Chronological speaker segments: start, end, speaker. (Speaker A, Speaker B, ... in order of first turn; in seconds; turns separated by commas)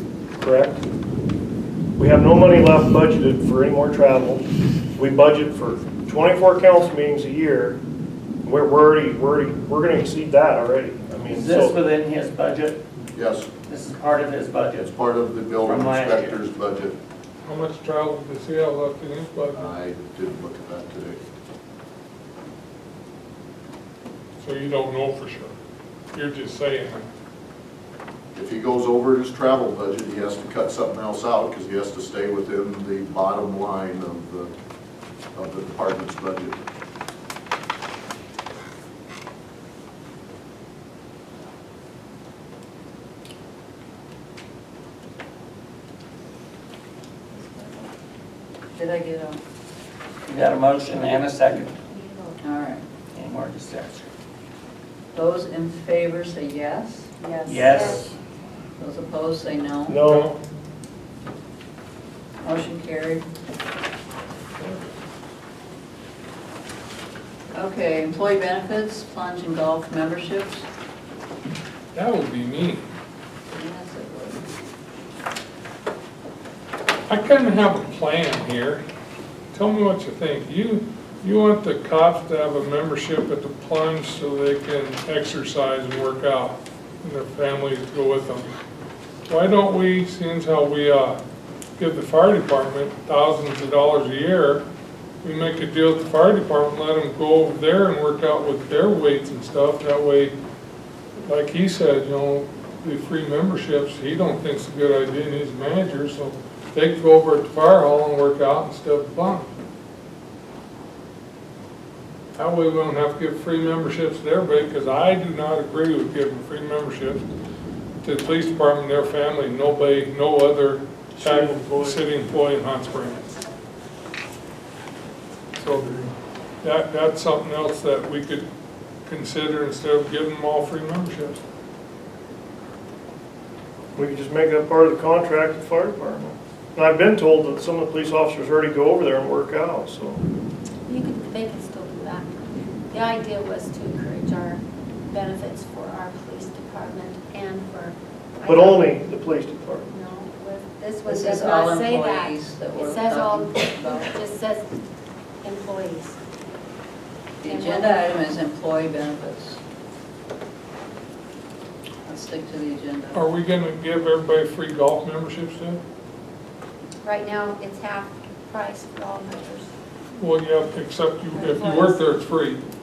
Speaker A: 0.4-0.8, Speaker A: 2.0-4.4, Speaker A: 5.0-7.8, Speaker A: 8.4-11.8, Speaker B: 11.2-12.8, Speaker C: 13.1-13.5, Speaker B: 13.7-14.9, Speaker C: 14.8-17.0, Speaker B: 15.6-16.4, Speaker D: 17.4-19.6, Speaker C: 19.5-21.2, Speaker D: 24.4-25.5, Speaker D: 26.1-27.1, Speaker C: 28.3-34.5, Speaker C: 35.3-36.6, Speaker E: 48.8-49.4, Speaker B: 50.2-51.8, Speaker F: 51.9-52.4, Speaker E: 52.4-52.8, Speaker B: 53.1-54.1, Speaker E: 55.1-58.0, Speaker F: 57.2-58.0, Speaker B: 57.5-58.1, Speaker E: 58.8-60.0, Speaker A: 59.9-60.3, Speaker D: 60.0-60.4, Speaker E: 62.4-63.2, Speaker E: 67.5-70.6, Speaker D: 71.9-72.9, Speaker E: 73.5-74.4, Speaker D: 77.1-78.8, Speaker D: 79.5-88.5, Speaker D: 89.3-91.2, Speaker D: 91.8-94.6, Speaker D: 95.2-100.3, Speaker D: 101.2-109.5, Speaker D: 112.3-117.2, Speaker D: 118.0-123.3, Speaker A: 121.2-122.0, Speaker D: 125.6-126.1, Speaker D: 126.6-128.4, Speaker D: 129.1-131.4, Speaker A: 133.9-140.2, Speaker F: 140.9-142.3, Speaker F: 142.9-148.9, Speaker A: 148.4-149.8, Speaker F: 149.8-154.7, Speaker E: 151.0-154.2, Speaker F: 155.4-156.2, Speaker E: 157.4-159.6, Speaker F: 157.4-158.1, Speaker E: 162.1-163.2, Speaker D: 163.1-165.8, Speaker F: 167.0-169.7, Speaker D: 170.2-172.6, Speaker F: 171.3-172.1